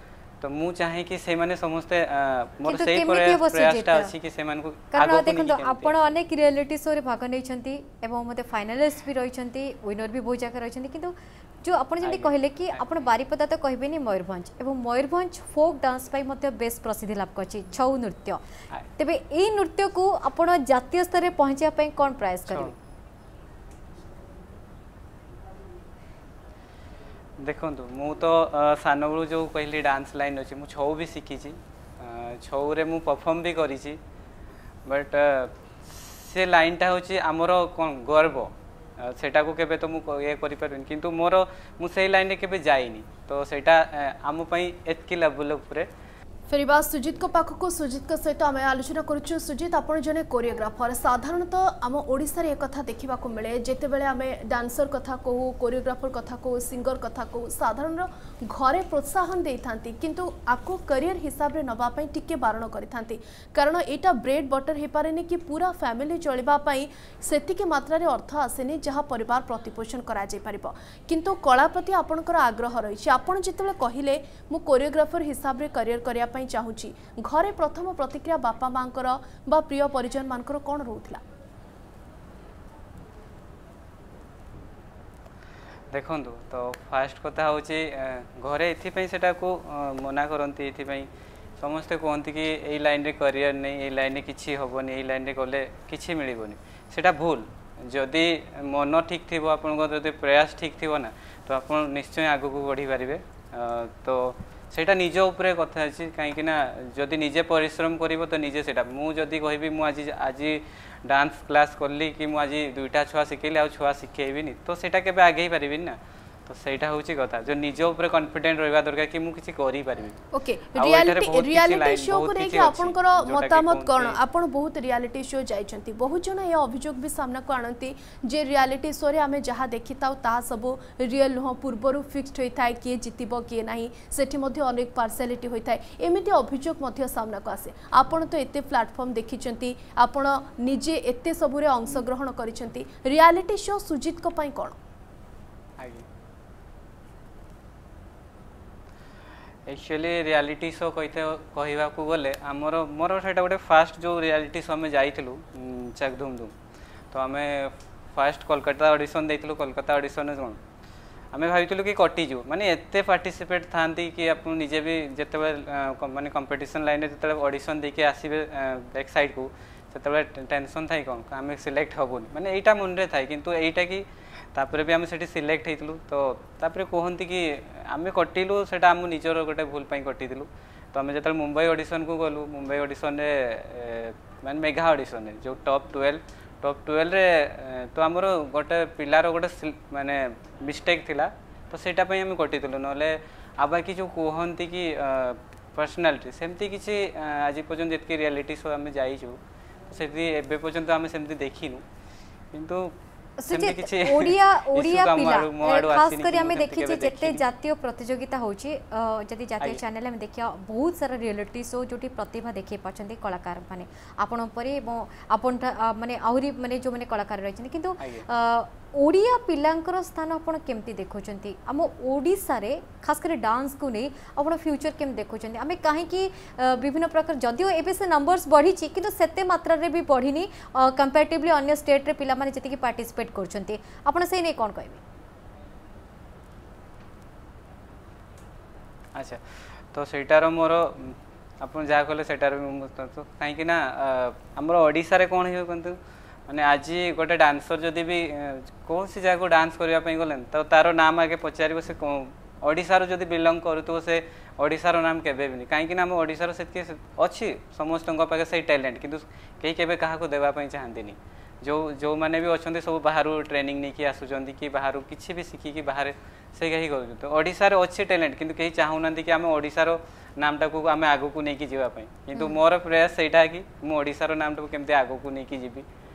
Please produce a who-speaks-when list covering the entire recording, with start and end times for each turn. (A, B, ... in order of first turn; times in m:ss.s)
0:00.4-0:06.2 A
0:02.7-0:04.1 B
0:04.9-0:18.4 B
0:12.0-0:13.0 A
0:19.0-0:22.7 B
0:22.5-0:22.7 A
0:27.4-0:34.0 A
0:34.8-0:45.9 A
0:46.5-1:21.2 C
1:25.9-1:31.1 A
1:31.6-2:00.2 A
2:00.3-2:24.8 C
2:00.8-2:04.2 A
2:25.8-2:26.0 A
2:29.6-2:36.5 A
2:37.1-2:40.6 A
2:41.3-3:19.4 A
3:19.9-3:21.8 A
3:22.5-3:22.9 A
3:23.4-3:55.0 B
3:23.5-3:27.4 A
3:38.0-3:38.3 A
3:59.1-3:59.4 A
3:59.9-4:06.0 A
4:06.5-4:35.8 A